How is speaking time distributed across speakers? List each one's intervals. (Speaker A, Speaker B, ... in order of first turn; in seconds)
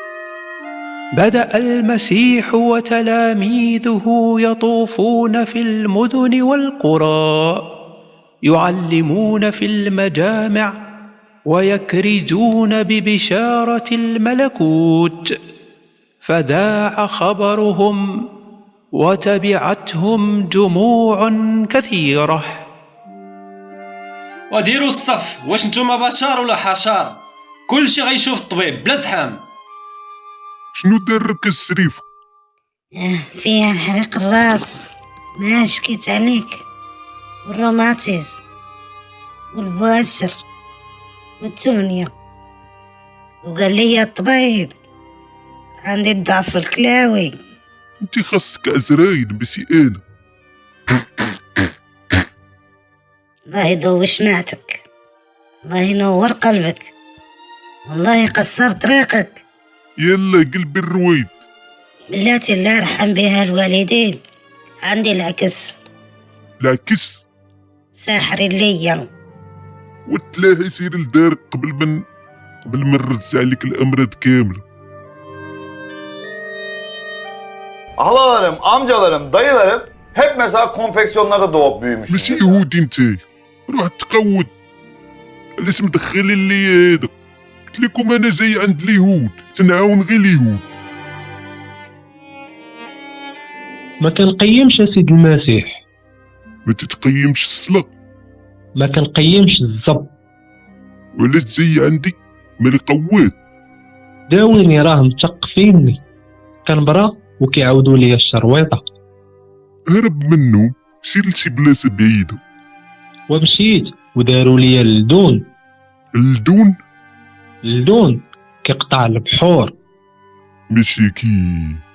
Speaker A: 1.2-7.7, 8.4-10.7, 11.5-15.4, 16.2-18.2, 18.9-22.6
Speaker B: 24.5-29.4
Speaker C: 30.7-32.0, 48.0-50.0, 60.0-61.3, 66.6-67.2, 70.1-72.0, 72.7-74.6, 82.1-84.5, 85.6-87.1, 87.7-90.7, 96.7-97.9, 101.2-103.3, 109.9-112.4, 116.2-116.8, 120.7-121.8
Speaker D: 33.0-36.6, 37.5-38.4, 39.5-40.4, 41.4-42.1, 43.5-44.7, 45.9-47.4, 53.5-54.8, 55.6-56.9, 57.9-59.4, 62.1-64.2, 64.9-65.8, 68.0-69.1
Speaker E: 78.0-82.6
Speaker F: 94.0-95.7, 98.8-100.1, 104.3-106.0, 106.7-108.8, 113.3-115.4, 117.7-119.7